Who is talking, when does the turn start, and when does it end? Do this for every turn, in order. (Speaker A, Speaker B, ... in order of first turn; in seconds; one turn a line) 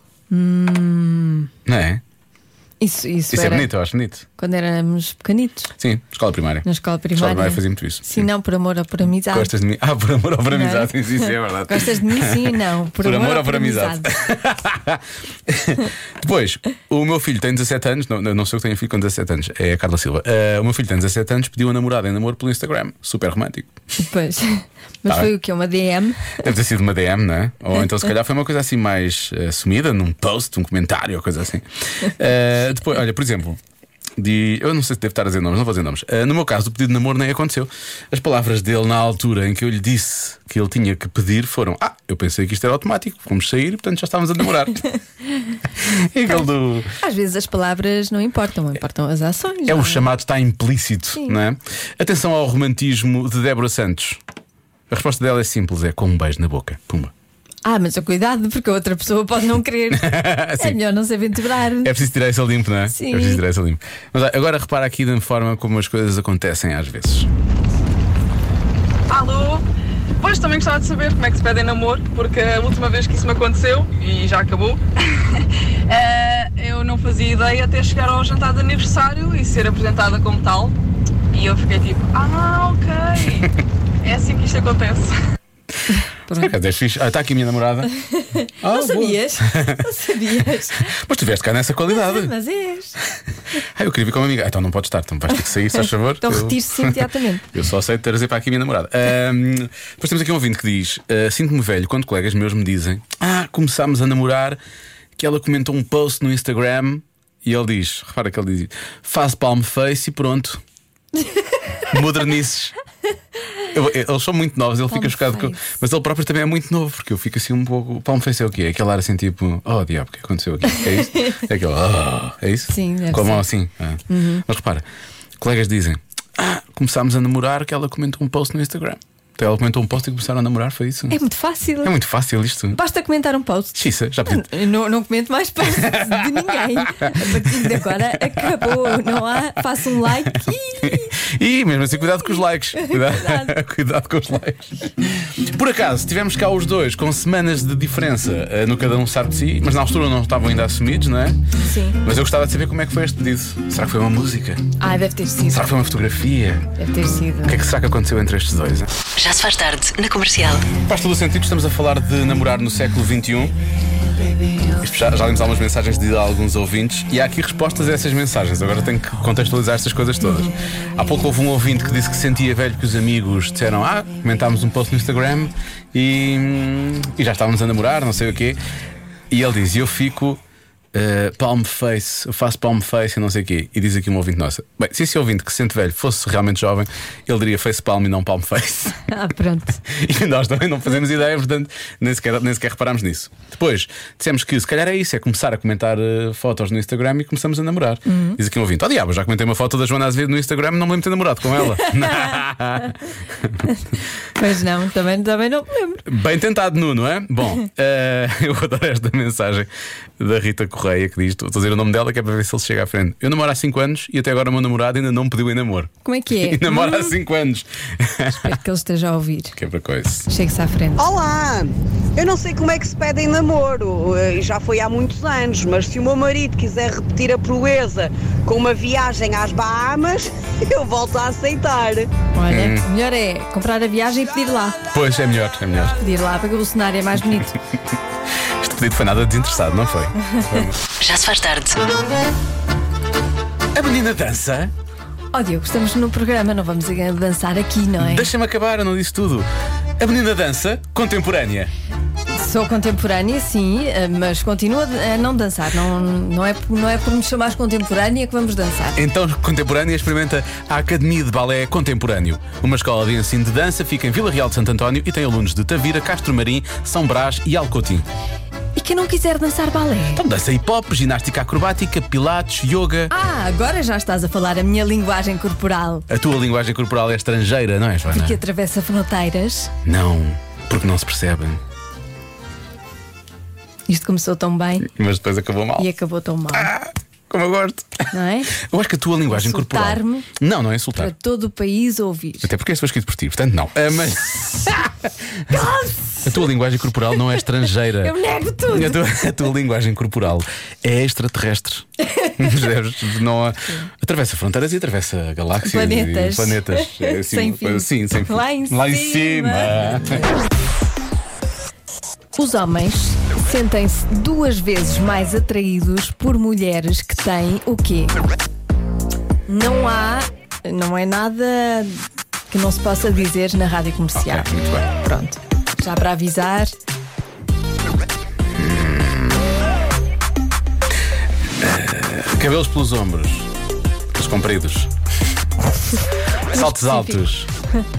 Speaker A: 0.3-1.5
Speaker B: 1.6-2.0
Speaker A: 2.8-3.7
Speaker B: 3.3-4.2
Speaker A: 4.4-5.7
Speaker B: 5.8-8.3
Speaker A: 6.6-9.5
Speaker B: 9.3-23.7
Speaker A: 10.5-14.1
Speaker A: 24.0-26.4
Speaker B: 25.1-25.3
Speaker B: 26.4-33.6
Speaker B: 34.2-44.8
Speaker B: 45.8-46.9
Speaker A: 47.0-50.1
Speaker B: 49.7-54.2
Speaker B: 54.9-57.1
Speaker A: 57.6-62.0
Speaker B: 59.9-60.8
Speaker B: 61.8-67.3
Speaker A: 62.9-63.4
Speaker C: 69.1-69.6
Speaker C: 70.2-80.7
Speaker C: 81.3-83.5
Speaker C: 84.0-85.2
Speaker A: 85.9-86.5
Speaker B: 86.3-87.9
Speaker A: 88.1-90.9
Speaker B: 88.6-89.8
Speaker B: 90.8-92.3
Speaker A: 91.9-93.0
Speaker B: 93.1-104.6
Speaker A: 95.8-97.4
Speaker B: 105.2-110.6
Speaker B: 111.9-112.7
Speaker B: 113.7-124.8
Speaker A: 114.9-115.6
Speaker A: 120.7-121.4
Speaker A: 122.7-123.5
Speaker A: 124.1-124.4
Speaker B: 125.4-131.2
Speaker A: 131.1-131.9
Speaker B: 131.8-132.8
Speaker A: 132.7-141.2
Speaker B: 133.7-134.5
Speaker B: 135.6-139.5
Speaker B: 140.3-151.4
Speaker A: 142.2-143.5
Speaker A: 151.6-152.0
Speaker B: 152.0-154.7
Speaker A: 154.8-155.7
Speaker B: 155.5-156.7
Speaker A: 156.8-157.6
Speaker B: 157.4-158.9
Speaker D: 159.2-160.7
Speaker B: 160.8-163.6
Speaker B: 164.7-178.6
Speaker A: 170.2-170.5
Speaker B: 179.3-180.4
Speaker B: 180.9-189.0
Speaker A: 189.0-189.8
Speaker B: 189.8-203.7
Speaker A: 198.1-198.4
Speaker A: 201.6-203.0
Speaker A: 204.3-206.0
Speaker B: 206.1-218.5
Speaker A: 216.0-217.2
Speaker A: 218.3-219.6
Speaker B: 219.6-220.3
Speaker A: 220.3-221.1
Speaker E: 221.0-232.1
Speaker A: 232.3-234.8
Speaker B: 232.5-232.8
Speaker B: 234.9-236.0
Speaker A: 236.0-237.5
Speaker B: 238.6-240.8
Speaker D: 241.0-241.8
Speaker B: 243.7-244.7
Speaker A: 245.3-248.3
Speaker B: 248.0-251.7
Speaker A: 252.3-259.0
Speaker B: 258.9-268.1
Speaker A: 268.8-270.2
Speaker B: 270.1-273.1
Speaker A: 273.1-276.1
Speaker B: 276.1-278.4
Speaker A: 278.1-279.7
Speaker B: 279.8-281.6
Speaker A: 283.9-284.9
Speaker B: 284.8-285.9
Speaker A: 285.8-286.7
Speaker B: 286.5-291.1
Speaker A: 288.1-288.5
Speaker A: 289.3-290.3
Speaker A: 290.9-292.5
Speaker B: 292.4-295.7
Speaker A: 295.5-296.5
Speaker B: 296.2-298.1
Speaker A: 297.8-299.0
Speaker B: 298.7-310.3
Speaker A: 302.0-302.5
Speaker A: 305.6-310.2
Speaker A: 312.4-318.1
Speaker A: 319.5-326.7
Speaker B: 324.1-324.9
Speaker B: 328.5-329.4
Speaker B: 331.6-333.5
Speaker B: 334.1-334.9
Speaker B: 336.5-337.5
Speaker A: 336.5-337.2